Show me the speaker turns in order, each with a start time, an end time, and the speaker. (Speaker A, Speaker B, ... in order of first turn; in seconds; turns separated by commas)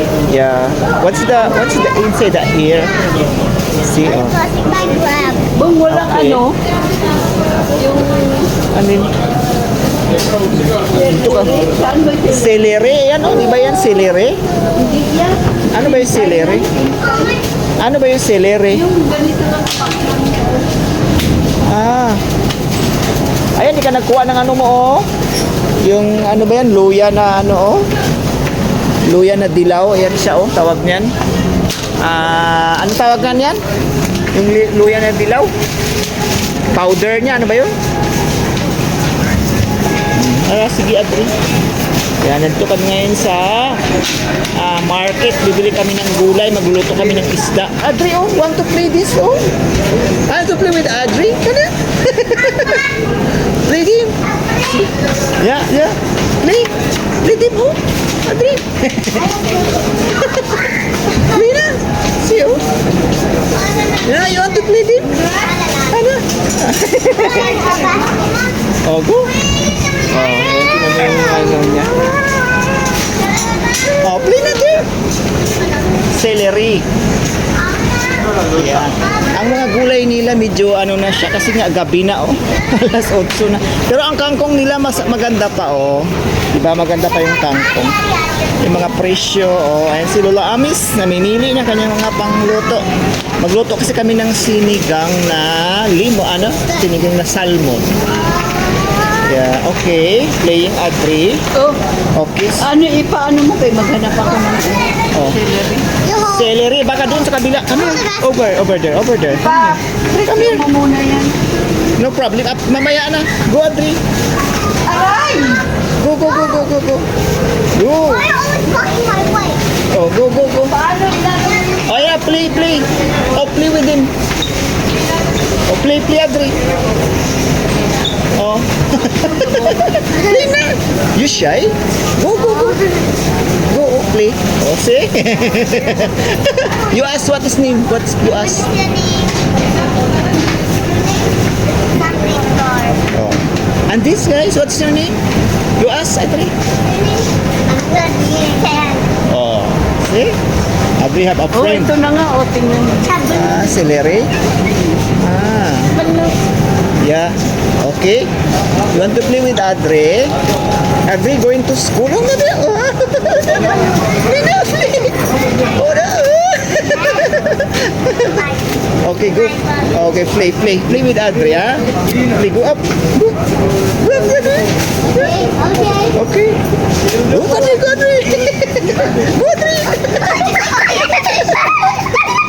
Speaker A: 0.3-3.0, Speaker A: 3.8-4.3, Speaker B: 4.0-5.5, Speaker C: 5.5-6.5, Speaker A: 5.9-6.4, Speaker C: 7.8-8.5, Speaker A: 8.7-9.2, Speaker A: 10.5-11.7, Speaker C: 10.8-12.6, Speaker A: 12.3-14.4, Speaker C: 14.7-17.4, Speaker A: 15.7-16.7, Speaker A: 17.8-18.9, Speaker C: 18.7-20.6, Speaker A: 21.6-22.2, Speaker A: 23.6-25.1, Speaker A: 25.8-27.9, Speaker A: 29.1-31.1, Speaker A: 32.0-33.6, Speaker A: 34.3-35.5, Speaker A: 36.7-37.7, Speaker A: 40.1-41.3, Speaker A: 42.2-43.8, Speaker A: 44.5-49.5, Speaker A: 50.3-53.0, Speaker A: 53.6-54.1, Speaker A: 55.4-59.3, Speaker B: 59.1-60.6, Speaker A: 60.3-60.6, Speaker A: 61.2-62.6, Speaker B: 63.5-64.6, Speaker A: 64.0-65.2, Speaker B: 65.2-66.0, Speaker A: 65.9-67.8, Speaker B: 67.1-68.4, Speaker A: 68.8-69.3, Speaker A: 70.1-72.3, Speaker B: 73.3-74.0, Speaker A: 74.0-74.8, Speaker A: 76.1-76.8, Speaker B: 77.6-78.5, Speaker A: 78.5-88.0, Speaker B: 87.9-88.5, Speaker A: 88.6-92.8, Speaker A: 93.4-97.9, Speaker B: 98.4-99.3, Speaker A: 99.2-101.4, Speaker A: 102.1-102.7, Speaker C: 102.6-105.8, Speaker A: 105.1-105.4, Speaker B: 106.0-106.5, Speaker A: 106.2-110.7, Speaker B: 107.8-108.3, Speaker C: 109.4-111.3, Speaker A: 112.0-114.0, Speaker C: 114.9-115.7, Speaker A: 116.0-117.1, Speaker A: 117.8-118.3, Speaker B: 118.0-119.6, Speaker A: 119.9-120.7, Speaker C: 120.7-121.6, Speaker A: 121.8-124.1, Speaker A: 125.7-126.5, Speaker A: 128.4-133.0, Speaker C: 129.3-129.9, Speaker A: 133.6-138.7, Speaker B: 138.2-139.4, Speaker B: 140.7-143.0, Speaker A: 143.1-145.2, Speaker A: 145.8-146.5, Speaker B: 146.8-149.1, Speaker A: 149.3-150.3, Speaker A: 151.0-151.9, Speaker C: 151.5-153.3, Speaker B: 153.0-153.7, Speaker A: 153.3-154.3, Speaker A: 155.2-155.9, Speaker B: 155.9-156.4, Speaker A: 157.0-158.3, Speaker A: 158.9-160.3, Speaker A: 161.1-168.4, Speaker B: 166.9-167.3, Speaker B: 168.2-168.6, Speaker A: 169.0-173.3, Speaker B: 169.5-169.9, Speaker A: 174.0-175.3, Speaker B: 175.1-176.2, Speaker A: 176.1-176.6, Speaker A: 177.3-182.1